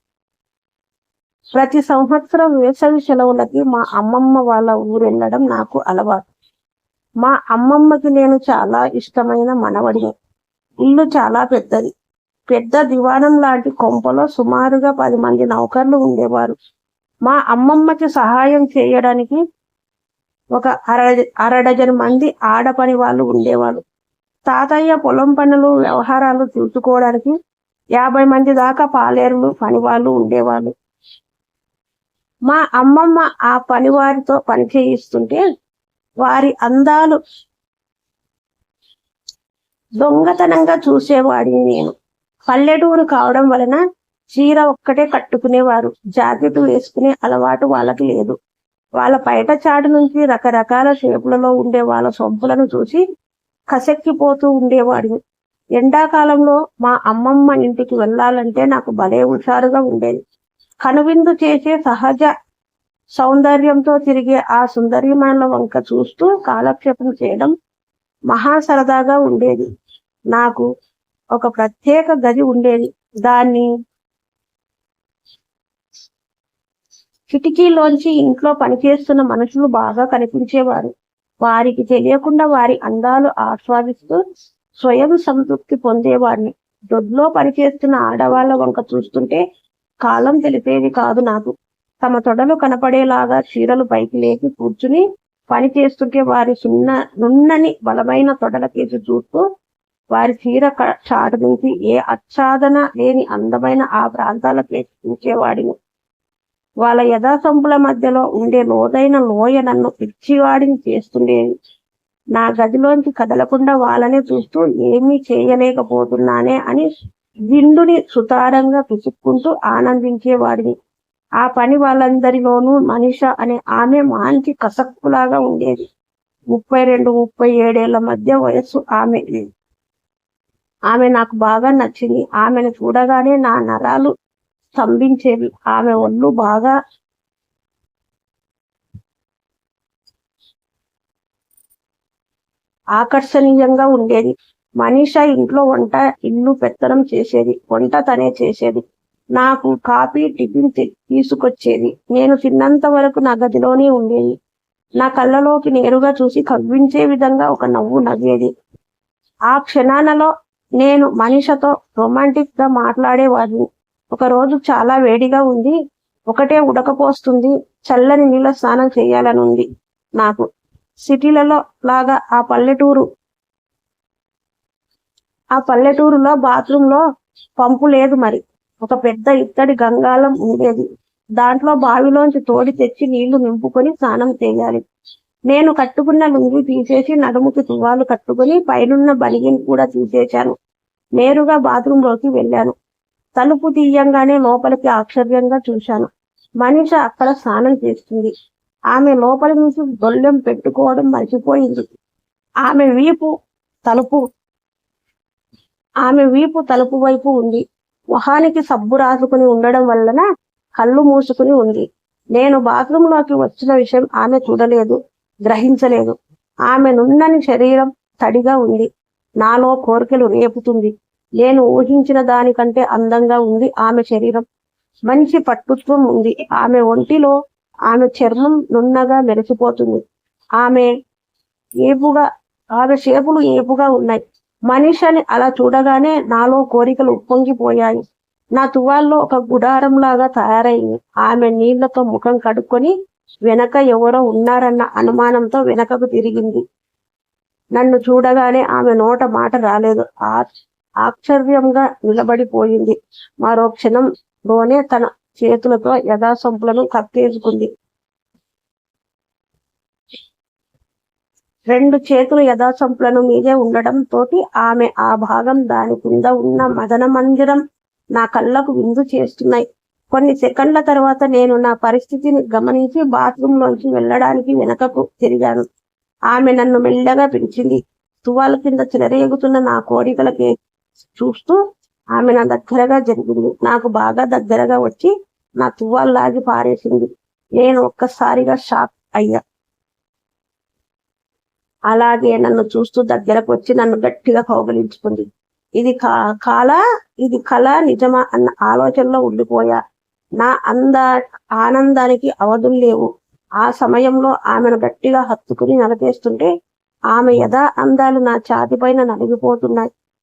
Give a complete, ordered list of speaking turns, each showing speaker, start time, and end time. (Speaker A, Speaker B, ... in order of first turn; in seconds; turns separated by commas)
Speaker A: 1.5-6.2, Speaker A: 7.2-10.1, Speaker A: 10.8-11.9, Speaker A: 12.5-16.6, Speaker A: 17.2-19.4, Speaker A: 20.6-23.8, Speaker A: 24.5-27.3, Speaker A: 28.0-30.7, Speaker A: 32.5-35.4, Speaker A: 36.2-37.2, Speaker A: 40.0-41.9, Speaker A: 42.5-43.8, Speaker A: 44.3-48.4, Speaker A: 49.0-53.0, Speaker A: 53.7-55.2, Speaker A: 55.8-60.2, Speaker A: 60.8-62.3, Speaker A: 63.1-67.5, Speaker A: 68.3-69.7, Speaker A: 70.3-70.7, Speaker A: 71.3-73.7, Speaker A: 77.3-80.9, Speaker A: 81.4-84.2, Speaker A: 84.8-89.4, Speaker A: 90.0-99.4, Speaker A: 100.1-105.8, Speaker A: 106.8-111.5, Speaker A: 112.3-116.9, Speaker A: 117.5-120.7, Speaker A: 121.4-125.9, Speaker A: 126.5-129.5, Speaker A: 130.9-134.1, Speaker A: 134.8-136.7, Speaker A: 143.0-148.8, Speaker A: 149.4-154.3, Speaker A: 155.0-158.5, Speaker A: 159.5-160.3, Speaker A: 160.8-165.8, Speaker A: 166.3-169.7, Speaker A: 170.2-170.4, Speaker A: 171.1-173.0, Speaker A: 175.6-177.0, Speaker A: 177.6-180.8, Speaker A: 181.4-184.8, Speaker A: 185.5-190.5, Speaker A: 191.2-192.7, Speaker A: 193.4-196.1, Speaker A: 196.6-198.3, Speaker A: 198.9-201.8, Speaker A: 202.7-203.3, Speaker A: 203.9-204.2, Speaker A: 206.0-210.2, Speaker A: 210.8-216.2, Speaker A: 216.7-218.9, Speaker A: 219.4-224.4, Speaker A: 225.1-227.3, Speaker A: 227.9-230.0, Speaker A: 230.6-230.9, Speaker A: 231.8-232.3, Speaker A: 232.8-238.0, Speaker A: 238.6-242.9, Speaker A: 243.5-246.6, Speaker A: 247.8-250.5, Speaker A: 251.0-257.7, Speaker A: 261.7-267.6, Speaker A: 268.1-275.6, Speaker A: 276.3-280.5, Speaker A: 281.1-281.6, Speaker A: 282.1-289.4, Speaker A: 291.9-295.3, Speaker A: 295.8-299.8, Speaker A: 300.4-301.1, Speaker A: 301.6-303.1, Speaker A: 303.6-306.5, Speaker A: 307.1-309.9